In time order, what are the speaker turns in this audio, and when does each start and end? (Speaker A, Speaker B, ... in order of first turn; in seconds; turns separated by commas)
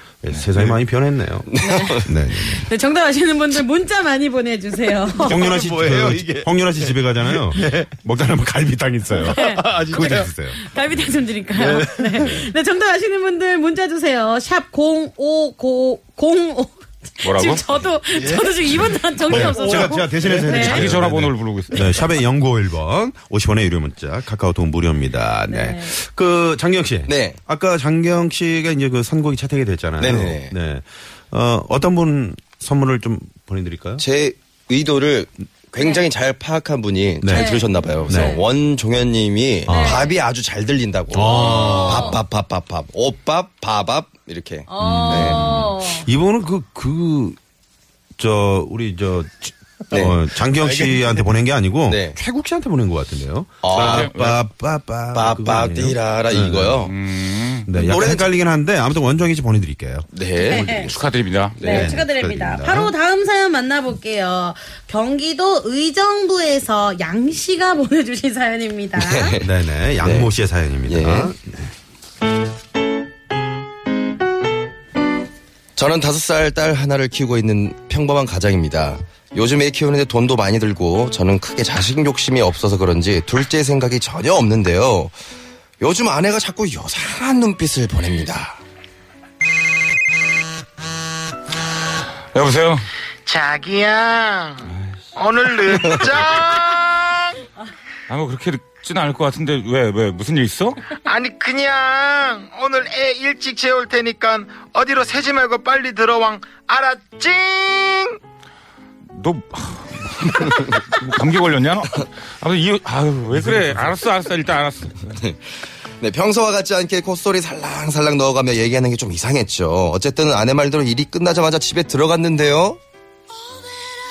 Speaker A: 0.2-2.7, Speaker B: 0.3-0.8, Speaker B: 1.5-2.1, Speaker C: 1.6-5.5, Speaker A: 5.2-11.1, Speaker B: 5.3-6.2, Speaker D: 5.5-6.4, Speaker D: 7.5-7.9, Speaker C: 9.2-20.8, Speaker D: 9.4-10.3, Speaker D: 11.7-12.0, Speaker A: 12.2-12.5, Speaker E: 17.2-17.6, Speaker D: 18.2-18.5, Speaker A: 19.3-34.0, Speaker D: 19.4-20.3, Speaker E: 20.4-22.1, Speaker C: 25.5-25.9, Speaker B: 27.1-27.4, Speaker B: 30.0-30.6, Speaker B: 34.0-45.4, Speaker A: 37.2-38.4, Speaker C: 37.3-38.4, Speaker A: 39.6-40.1, Speaker C: 39.7-40.2, Speaker A: 41.1-42.2, Speaker C: 41.2-42.2, Speaker C: 44.7-46.1, Speaker A: 44.8-47.4, Speaker A: 48.2-56.9, Speaker B: 49.9-50.2, Speaker D: 50.7-50.9, Speaker B: 51.9-52.2, Speaker B: 53.6-54.2, Speaker E: 53.7-54.4, Speaker B: 55.1-57.0, Speaker E: 56.8-57.7, Speaker A: 57.7-61.0, Speaker B: 57.7-58.3, Speaker B: 60.1-61.0, Speaker C: 60.4-60.9, Speaker E: 60.8-61.6, Speaker B: 61.5-62.0, Speaker A: 61.6-62.9, Speaker C: 61.6-69.3, Speaker B: 69.0-70.3, Speaker A: 69.4-71.7, Speaker B: 70.9-71.3, Speaker B: 75.8-85.1, Speaker B: 85.8-88.6, Speaker E: 92.3-92.9, Speaker D: 93.2-97.4, Speaker B: 95.6-96.2, Speaker E: 98.1-101.0, Speaker D: 101.1-108.2, Speaker E: 109.1-115.2, Speaker B: 115.1-115.5, Speaker B: 116.0-122.8